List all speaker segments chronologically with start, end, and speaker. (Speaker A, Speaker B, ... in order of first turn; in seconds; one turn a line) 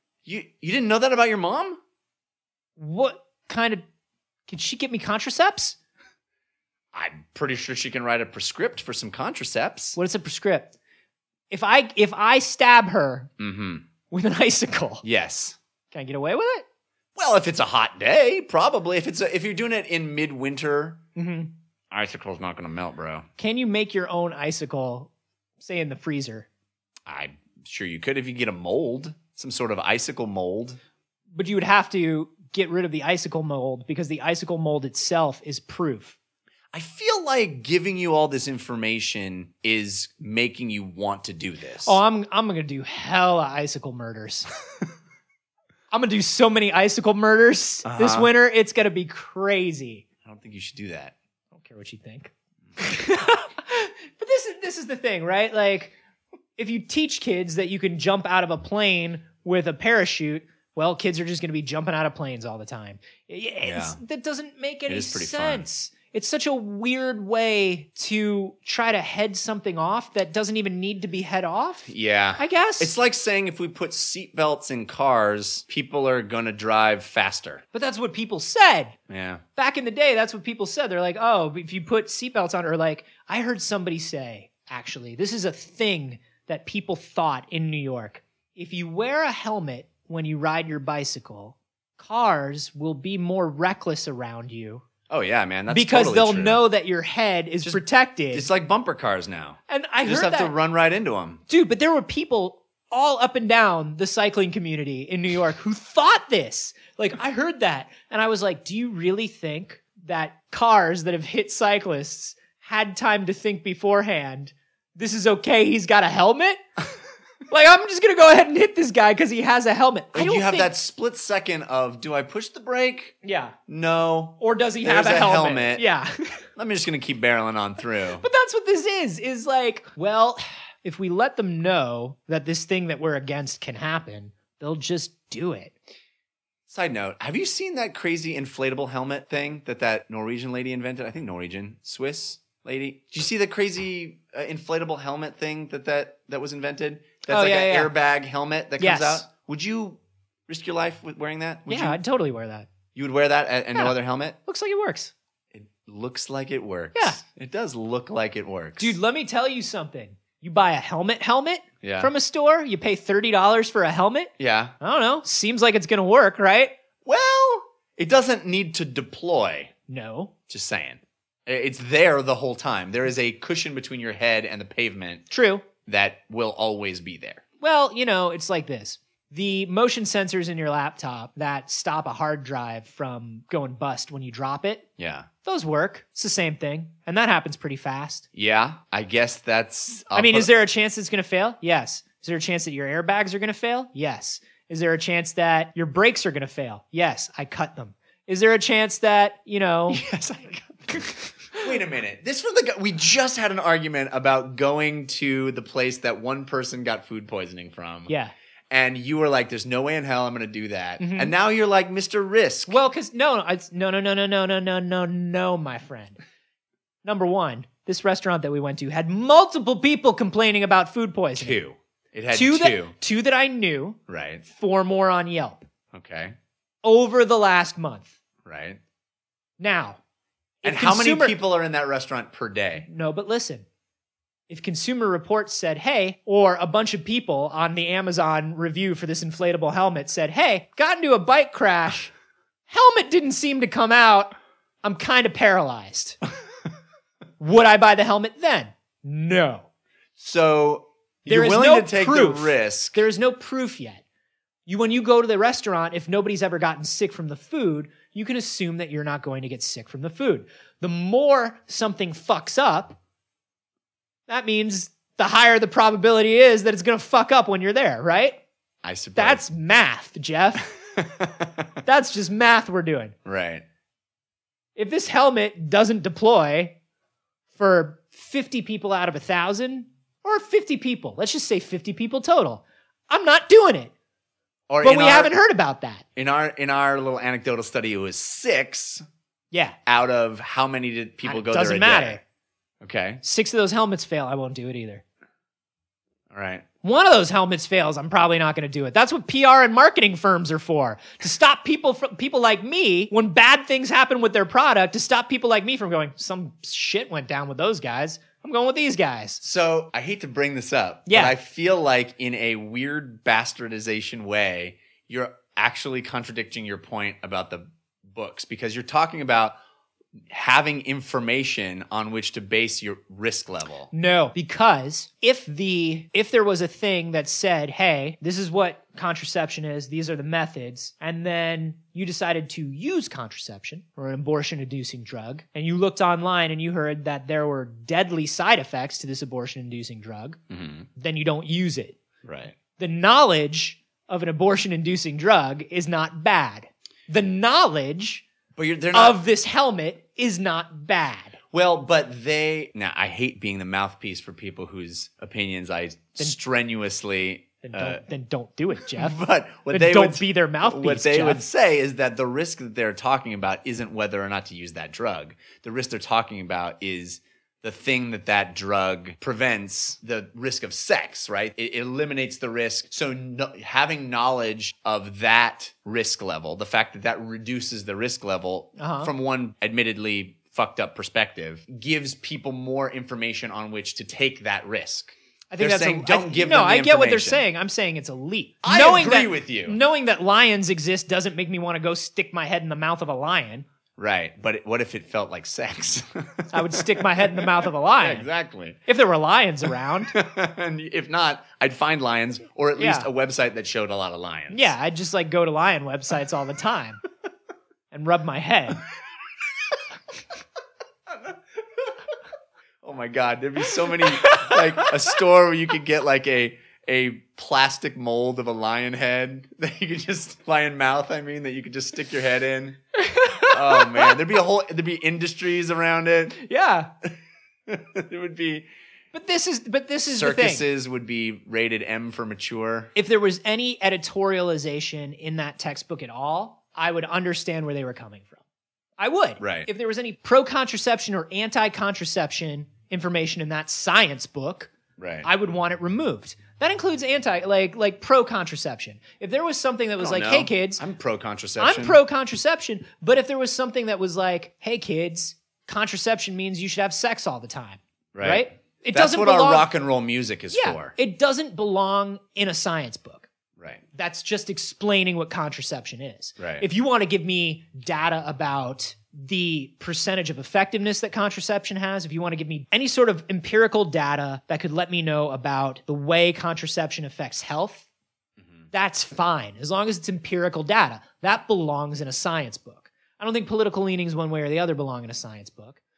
Speaker A: 0.2-1.8
Speaker B: 2.8-3.8
Speaker B: 4.5-5.8
Speaker A: 6.9-10.0
Speaker B: 10.0-10.7
Speaker B: 11.5-13.3
Speaker A: 13.4-13.8
Speaker B: 14.1-15.0
Speaker A: 15.0-15.6
Speaker B: 15.9-16.6
Speaker A: 17.1-21.0
Speaker B: 21.2-21.5
Speaker A: 21.9-23.3
Speaker B: 23.4-26.5
Speaker A: 27.1-30.8
Speaker B: 31.4-36.2
Speaker A: 36.7-42.0
Speaker B: 41.8-44.5
Speaker B: 45.9-50.0
Speaker A: 47.9-48.3
Speaker A: 50.2-51.1
Speaker B: 51.5-55.9
Speaker B: 56.6-72.9
Speaker A: 63.6-64.0
Speaker A: 64.9-65.7
Speaker A: 71.9-77.6
Speaker B: 77.7-79.0
Speaker A: 79.1-79.4
Speaker B: 79.6-94.8
Speaker A: 95.1-96.6
Speaker B: 95.7-98.5
Speaker A: 97.6-101.4
Speaker B: 99.7-100.5
Speaker B: 101.5-116.6
Speaker B: 117.5-120.7
Speaker A: 120.1-123.2
Speaker B: 123.2-123.5
Speaker A: 123.7-125.8
Speaker B: 124.4-126.4
Speaker A: 126.6-128.2
Speaker B: 128.2-135.7
Speaker A: 136.7-152.0
Speaker B: 147.3-147.9
Speaker B: 148.8-149.2
Speaker B: 151.7-152.7
Speaker A: 152.9-154.4
Speaker B: 153.8-155.1
Speaker A: 155.5-159.0
Speaker B: 158.8-166.7
Speaker A: 161.8-162.1
Speaker A: 164.4-164.8
Speaker A: 167.1-169.7
Speaker B: 169.9-170.3
Speaker A: 170.5-175.2
Speaker B: 175.3-175.7
Speaker A: 175.9-177.4
Speaker B: 177.6-184.9
Speaker A: 185.0-185.3
Speaker B: 185.4-188.3
Speaker A: 188.3-190.5
Speaker B: 190.2-200.0
Speaker A: 199.9-208.1
Speaker B: 208.1-208.3
Speaker A: 208.7-212.8
Speaker B: 211.0-211.3
Speaker B: 212.7-216.2
Speaker B: 217.0-221.6
Speaker A: 221.4-222.9
Speaker B: 222.3-225.7
Speaker A: 224.1-224.5
Speaker A: 225.9-226.3
Speaker B: 226.8-228.1
Speaker A: 228.4-228.8
Speaker B: 229.6-230.0
Speaker B: 230.6-231.4
Speaker A: 230.7-232.9
Speaker B: 232.8-233.7
Speaker B: 234.5-242.1
Speaker B: 242.7-246.2
Speaker B: 247.4-249.7
Speaker A: 250.2-253.1
Speaker B: 251.3-254.0
Speaker B: 254.7-263.0
Speaker B: 264.3-268.4
Speaker A: 268.8-269.4
Speaker B: 269.2-270.7
Speaker A: 271.0-271.5
Speaker B: 271.9-273.1
Speaker A: 273.2-273.6
Speaker B: 274.8-276.8
Speaker B: 277.6-283.9
Speaker A: 284.7-285.3
Speaker B: 284.8-286.0
Speaker A: 286.2-289.0
Speaker A: 289.9-292.2
Speaker B: 291.2-292.2
Speaker A: 292.8-293.2
Speaker B: 293.2-295.0
Speaker A: 296.3-296.6
Speaker B: 296.8-309.4
Speaker A: 309.4-319.6
Speaker B: 311.1-311.4
Speaker A: 320.3-323.9
Speaker B: 323.9-340.4
Speaker A: 340.5-340.9
Speaker B: 340.9-342.0
Speaker A: 342.2-342.6
Speaker B: 342.7-348.2
Speaker A: 348.6-349.2
Speaker B: 348.9-351.4
Speaker A: 351.5-358.0
Speaker B: 357.6-361.5
Speaker A: 358.9-387.4
Speaker B: 378.8-379.1
Speaker B: 385.5-393.7
Speaker A: 388.6-389.8
Speaker A: 394.0-398.8
Speaker B: 396.5-398.3
Speaker B: 398.9-400.1
Speaker A: 400.1-404.7
Speaker B: 402.8-403.1
Speaker B: 404.5-407.0
Speaker B: 407.9-408.8
Speaker A: 412.8-422.8
Speaker B: 414.1-414.6
Speaker B: 423.0-424.1
Speaker A: 423.5-426.4
Speaker B: 426.4-426.9
Speaker A: 427.7-428.7
Speaker B: 429.1-430.7
Speaker A: 430.2-432.9
Speaker B: 432.9-438.4
Speaker B: 439.0-444.7
Speaker A: 439.4-439.7
Speaker A: 445.0-445.3
Speaker B: 445.2-450.8
Speaker A: 450.0-452.0
Speaker B: 451.6-459.7
Speaker A: 458.1-460.9
Speaker B: 460.5-463.3
Speaker A: 463.6-463.8
Speaker B: 463.9-477.9
Speaker A: 466.4-466.7
Speaker A: 478.4-478.7
Speaker B: 478.7-485.8